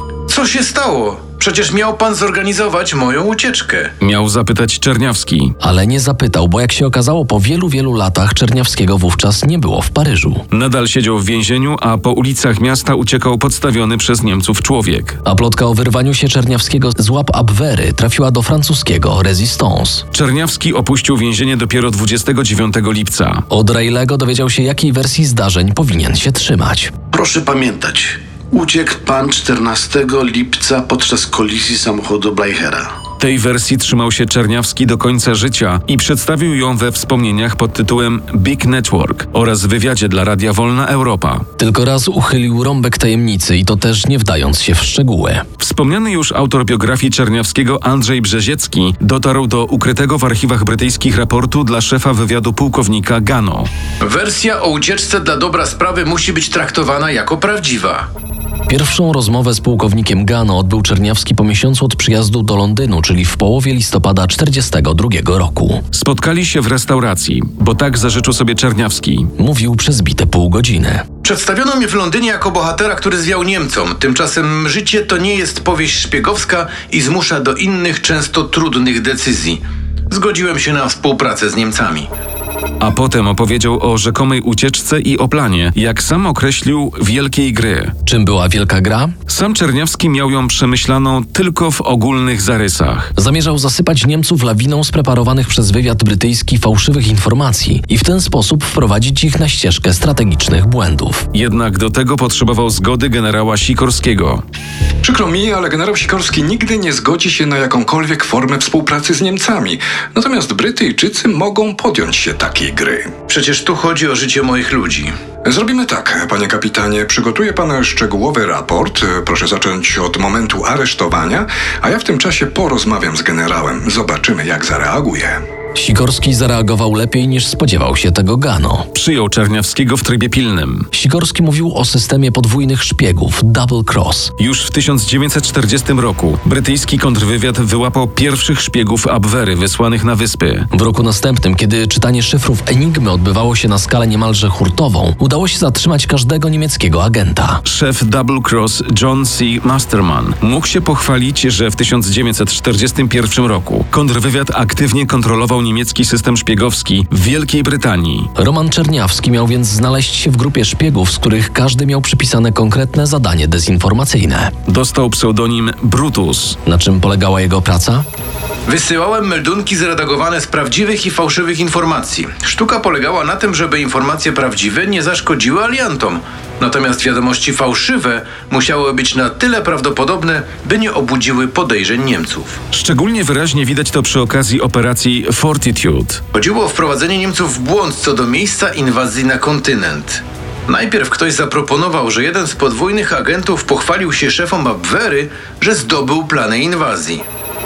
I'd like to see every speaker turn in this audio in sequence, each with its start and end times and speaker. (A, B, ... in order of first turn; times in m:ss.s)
0:00.3-0:03.9 A
0:04.0-0:05.6 B
0:05.6-0:10.4 C
0:10.5-0:15.2 B
0:15.2-0:20.0 C
0:20.1-0:23.4 B
0:23.5-0:26.9 C
0:27.1-0:32.9 D
0:33.2-0:41.4 B
0:41.6-0:45.4 C
0:45.6-0:53.7 B
0:54.0-0:58.1 A
0:58.7-1:05.8 C
1:05.9-1:09.3 B
1:09.4-1:11.0 C
1:11.2-1:22.1 A
1:22.8-1:28.0 B
1:28.0-1:29.1 C
1:29.3-1:33.1 B
1:33.2-1:41.3 C
1:41.3-1:44.4 B
1:45.0-1:53.1 E
1:53.3-1:55.1 A
1:55.4-2:05.4 E
2:05.8-2:08.9 C
2:08.9-2:10.9 B
2:10.9-2:14.3 C
2:14.4-2:20.7 B
2:20.7-2:27.6 C
2:27.6-2:38.3 B
2:38.4-2:44.5 C
2:44.6-2:46.6 B
2:46.6-2:48.0 C
2:48.7-3:02.6 A
3:02.7-3:06.2 B
3:06.3-3:17.2 A